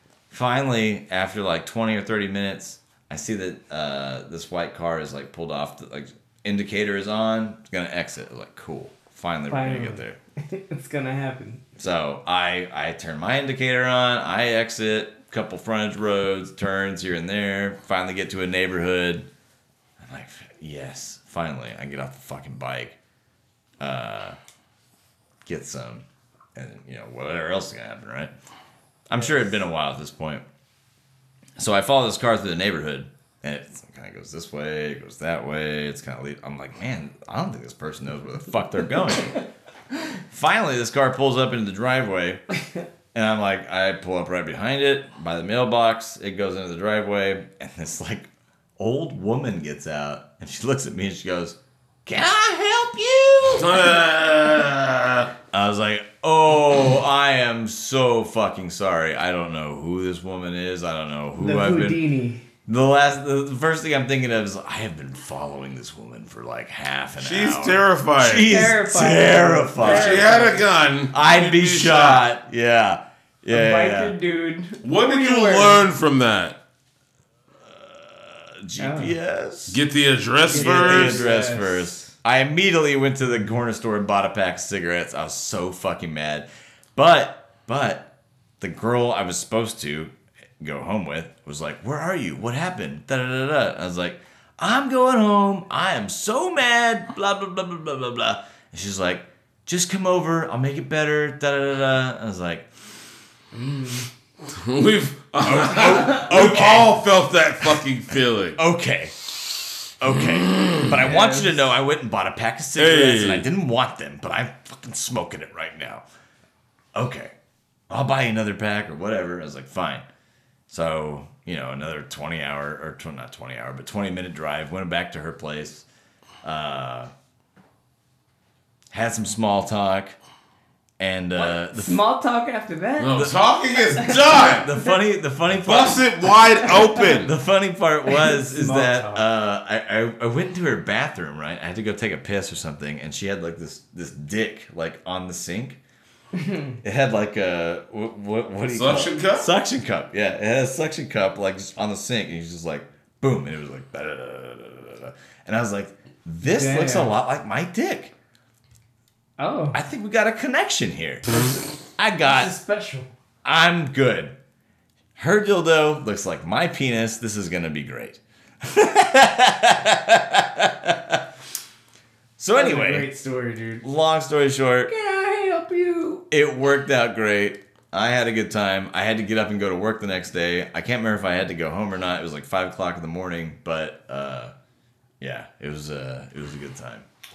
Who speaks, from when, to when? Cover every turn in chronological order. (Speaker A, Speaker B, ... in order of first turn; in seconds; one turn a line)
Speaker A: 0.3-10.2
Speaker B: 9.5-11.6
Speaker A: 11.8-19.3
Speaker A: 20.0-22.9
Speaker A: 23.8-24.4
Speaker A: 25.4-28.3
Speaker A: 29.1-30.4
Speaker B: 29.1-29.4
Speaker A: 31.6-39.4
Speaker A: 40.3-42.4
Speaker A: 43.1-53.7
Speaker C: 53.5-55.3
Speaker A: 55.5-62.0
Speaker B: 61.4-62.4
Speaker A: 62.7-70.3
Speaker C: 67.2-68.5
Speaker B: 68.5-70.6
Speaker C: 69.8-72.3
Speaker A: 71.1-74.2
Speaker B: 73.5-75.8
Speaker C: 74.8-76.6
Speaker A: 77.6-79.8
Speaker B: 78.8-79.2
Speaker C: 79.7-81.3
Speaker B: 80.5-82.1
Speaker A: 80.5-88.1
Speaker A: 88.6-102.7
Speaker B: 103.5-104.1
Speaker C: 104.4-108.6
Speaker A: 105.4-107.0
Speaker A: 108.5-109.1
Speaker A: 110.0-116.0
Speaker C: 110.1-111.0
Speaker B: 111.0-111.6
Speaker C: 112.8-113.5
Speaker A: 116.9-117.3
Speaker A: 117.9-120.0
Speaker A: 120.7-125.8
Speaker A: 126.4-127.1
Speaker A: 128.9-130.2
Speaker A: 131.0-132.0
Speaker B: 131.3-133.2
Speaker C: 133.0-134.7
Speaker A: 133.1-133.3
Speaker B: 134.0-134.2
Speaker A: 134.1-136.0
Speaker C: 135.6-137.3
Speaker B: 136.7-137.0
Speaker A: 136.9-145.8
Speaker B: 138.1-139.2
Speaker B: 146.3-146.7
Speaker A: 146.8-158.1
Speaker C: 148.7-149.5
Speaker B: 156.4-157.1
Speaker B: 159.4-159.8
Speaker A: 159.7-162.5
Speaker B: 162.2-163.1
Speaker A: 163.4-164.3
Speaker A: 165.2-171.2
Speaker A: 172.4-173.1
Speaker B: 172.5-173.8
Speaker A: 173.8-174.9
Speaker B: 174.9-176.2
Speaker A: 176.3-184.5
Speaker A: 185.2-187.1